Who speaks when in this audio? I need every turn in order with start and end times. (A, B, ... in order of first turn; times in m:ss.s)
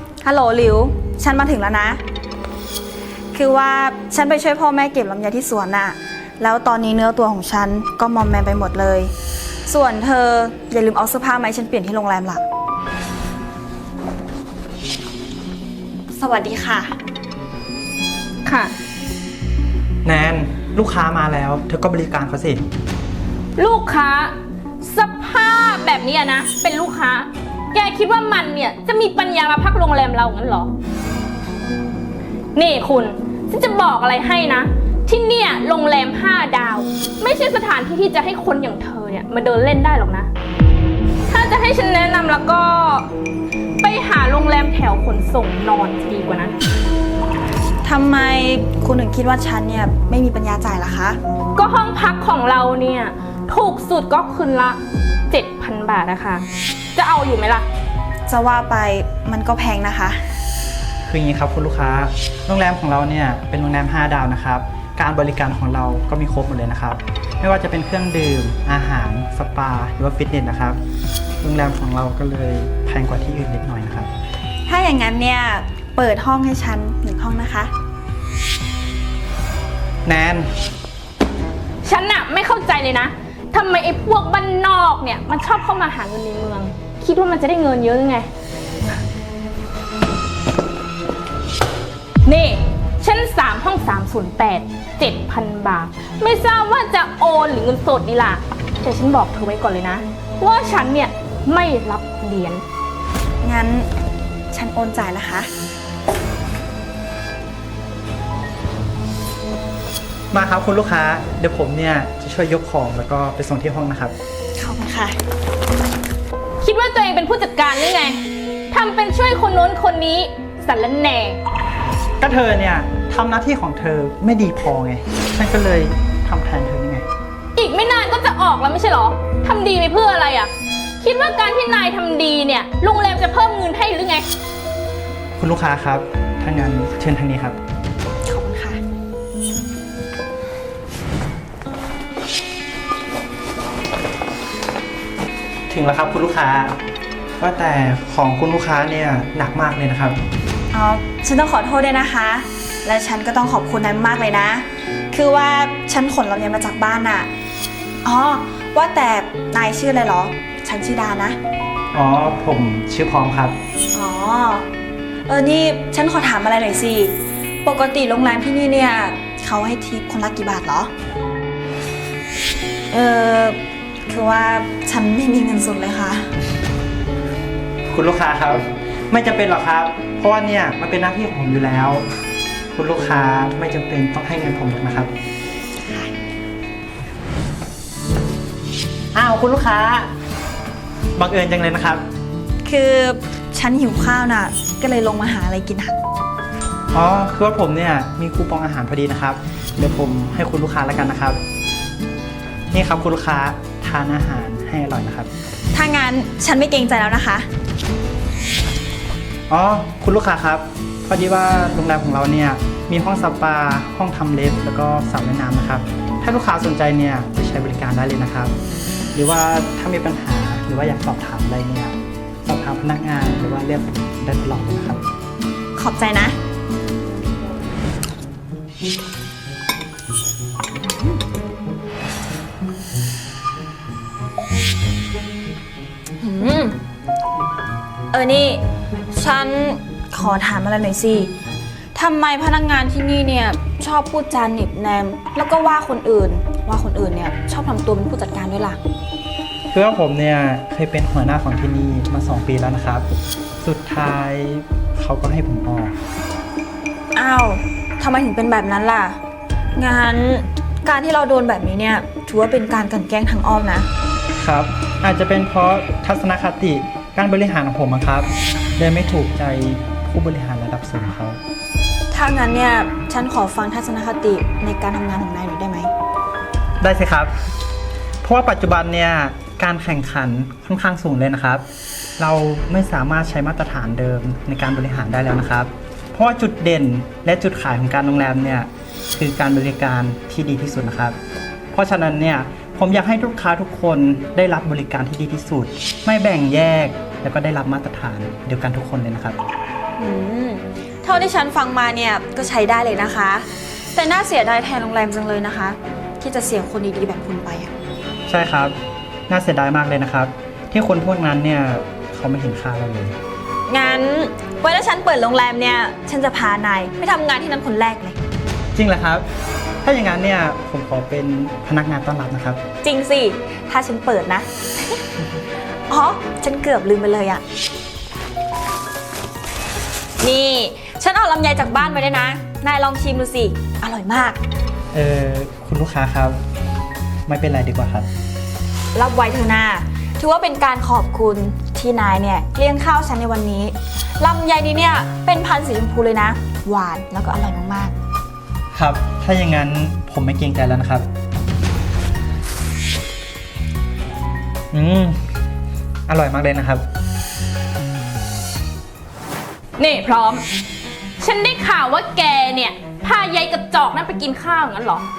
0:00.2-0:02.0 A
0:03.3-0:09.1 A
0:09.7-0:12.4 A
0:16.1-0:17.0 A
0:18.4-0:18.7 B
0:20.0-0:22.6 C
0:23.6-0:30.7 B
0:32.6-0:40.3 B
0:41.3-0:43.1 B
0:43.8-0:46.6 B
0:47.8-0:51.2 A
0:51.6-0:54.8 B
0:55.3-0:57.7 B
0:58.3-1:00.2 A
1:01.0-1:10.8 C
1:11.4-1:14.1 C
1:14.6-1:17.7 A
1:20.0-1:20.5 C
1:21.8-1:28.3 B
1:32.2-1:42.6 B
1:43.4-1:43.9 A
1:44.5-1:45.5 A
1:50.3-1:54.1 C
1:54.6-1:55.2 A
1:56.6-1:58.2 B
1:58.7-2:01.4 B
2:02.2-2:07.0 C
2:07.6-2:14.2 B
2:15.4-2:17.6 C
2:18.2-2:18.8 A
2:25.7-2:26.8 C
2:27.4-2:30.2 C
2:30.7-2:37.3 A
2:38.0-2:41.4 A
2:41.9-2:43.6 C
2:43.9-2:44.7 A
2:45.3-2:50.9 A
2:52.9-2:56.3 A
2:57.9-3:02.0 C
3:02.7-3:05.1 C
3:05.8-3:06.1 A
3:09.1-3:10.1 C
3:11.2-3:12.0 C
3:12.6-3:15.9 A
3:16.9-3:21.4 C
3:22.7-3:25.3 C
3:25.7-3:27.5 A
3:29.5-3:38.5 C
3:39.1-3:45.0 C
3:45.8-3:46.4 A
3:56.2-3:56.8 A
3:58.1-4:01.3 A
4:01.9-4:08.8 A
4:09.7-4:13.0 C
4:13.6-4:16.0 C
4:17.1-4:19.2 A
4:19.8-4:23.9 A
4:24.4-4:31.4 C
4:32.1-4:35.9 A
4:36.8-4:37.3 C
4:38.2-4:41.6 C
4:42.2-4:51.2 C
4:51.7-4:59.4 C
5:00.0-5:07.7 A
5:08.3-5:08.7 C
5:09.3-5:13.2 C
5:13.7-5:18.2 A
5:18.7-5:19.2 C
5:19.8-5:22.6 C
5:22.8-5:25.0 A
5:25.9-5:27.4 A
5:30.2-5:34.4 A
5:34.9-5:36.4 C
5:37.3-5:38.1 C
5:38.9-5:47.9 A
5:48.7-5:51.1 C
5:54.7-5:55.2 C
5:56.1-5:56.8 C
5:59.8-6:00.4 B
6:01.2-6:05.1 B